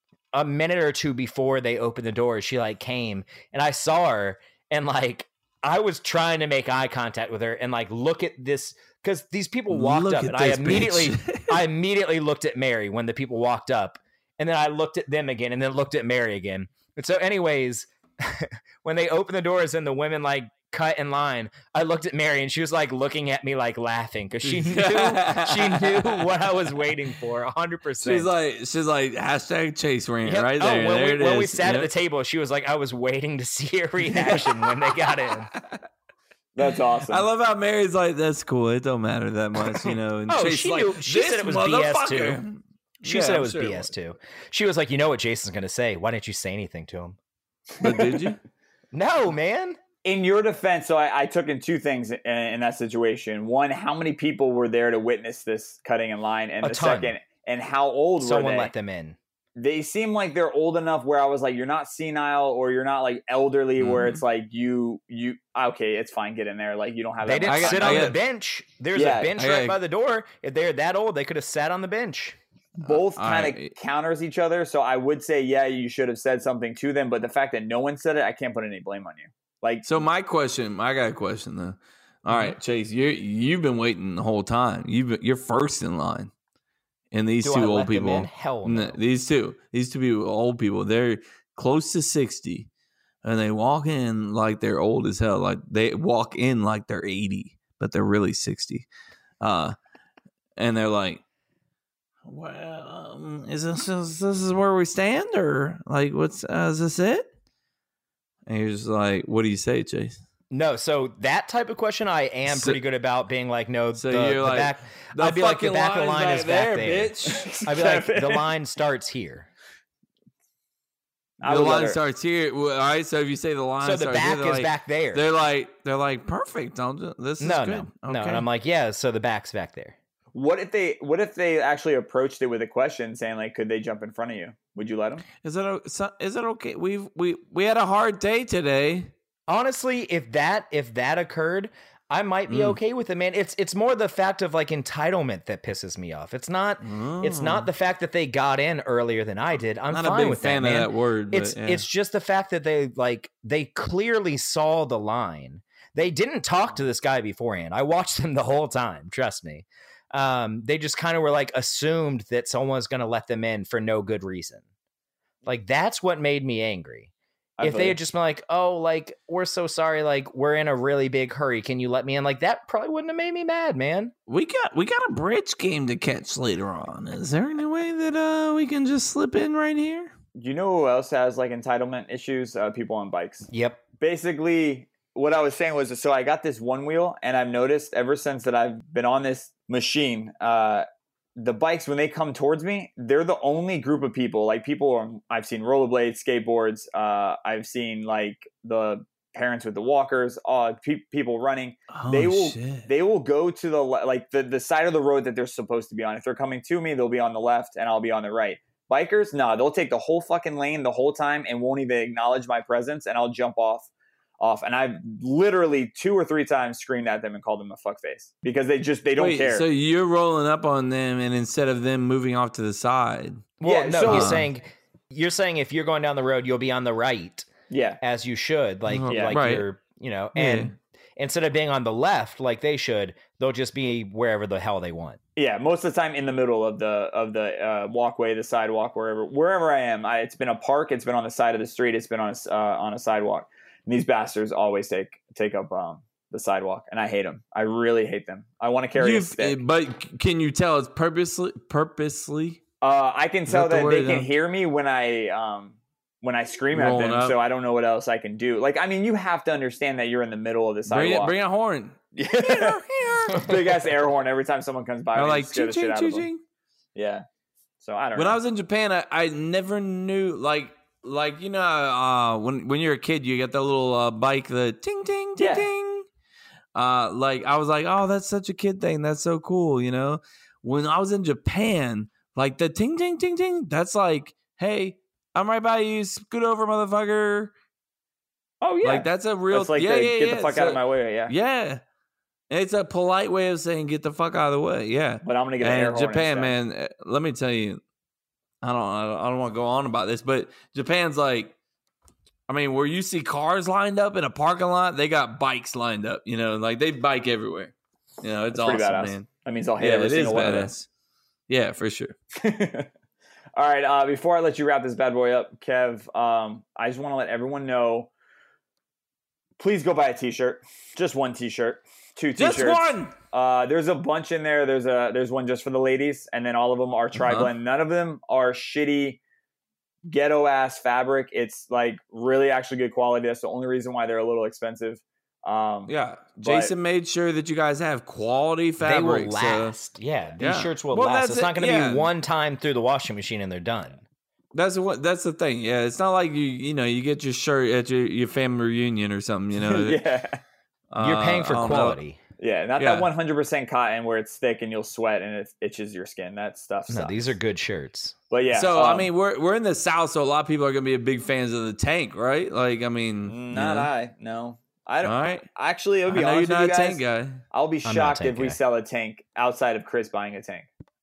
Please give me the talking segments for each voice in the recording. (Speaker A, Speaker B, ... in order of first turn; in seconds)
Speaker A: 0.3-28.3, 30.2-35.5, 39.7-42.4, 43.0-47.2, 48.9-49.8, 56.6-57.1, 58.2-59.2, 67.2-72.4, 87.4-89.0, 110.5-117.1, 117.7-119.5, 123.8-125.3, 127.4-130.0, 139.5-164.6, 165.4-167.1, 167.6-174.1, 183.5-183.8, 223.6-227.5, 228.0-235.2, 338.8-344.1, 351.0-352.2, 356.9-358.2, 367.9-368.6
Speaker B: 9.7-11.6, 24.4-26.6, 28.0-31.9, 37.1-43.9, 47.8-48.4, 63.8-64.2, 67.5-68.2, 69.4-69.8, 72.8-73.7, 79.8-86.3, 87.1-92.7, 93.2-98.9, 99.4-99.8, 100.6-101.2, 102.2-107.3, 108.5-110.2, 112.5-112.8, 114.0-117.5, 121.5-128.5, 135.4-139.1, 142.5-142.8, 146.8-147.7, 149.9-151.8, 174.3-180.1, 201.9-202.9, 219.2-223.4, 224.1-224.5, 228.9-229.7, 230.3-230.7, 249.0-252.6, 253.5-254.3, 256.7-257.4, 260.9-263.6, 265.1-266.4, 268.2-276.1, 276.8-287.5, 288.8-291.8, 292.5-297.8, 298.6-301.6, 302.5-310.9, 311.5-312.1, 322.4-323.1, 327.2-327.5, 335.9-339.8, 340.4-342.1, 344.5-350.0, 350.9-352.0, 352.8-353.1, 358.5-363.9, 365.0-365.5, 366.1-367.4
Speaker C: 36.5-37.2, 50.0-58.7, 59.6-68.2, 68.9-69.3, 72.8-79.8, 117.3-118.5, 121.4-122.0, 130.3-135.2, 167.6-168.0, 180.4-190.9, 191.4-213.9, 214.4-219.7, 223.6-224.4, 227.7-228.0, 229.1-229.4, 235.4-249.6, 252.8-261.3, 262.1-262.8, 263.3-266.3, 266.9-267.2, 267.8-268.4, 275.4-275.7, 288.6-291.3, 295.2-296.5, 308.5-310.7, 312.4-312.9, 313.6-318.1, 319.6-329.2, 330.1-336.7, 349.6-350.4, 352.4-357.2, 358.3-359.1, 363.3-370.7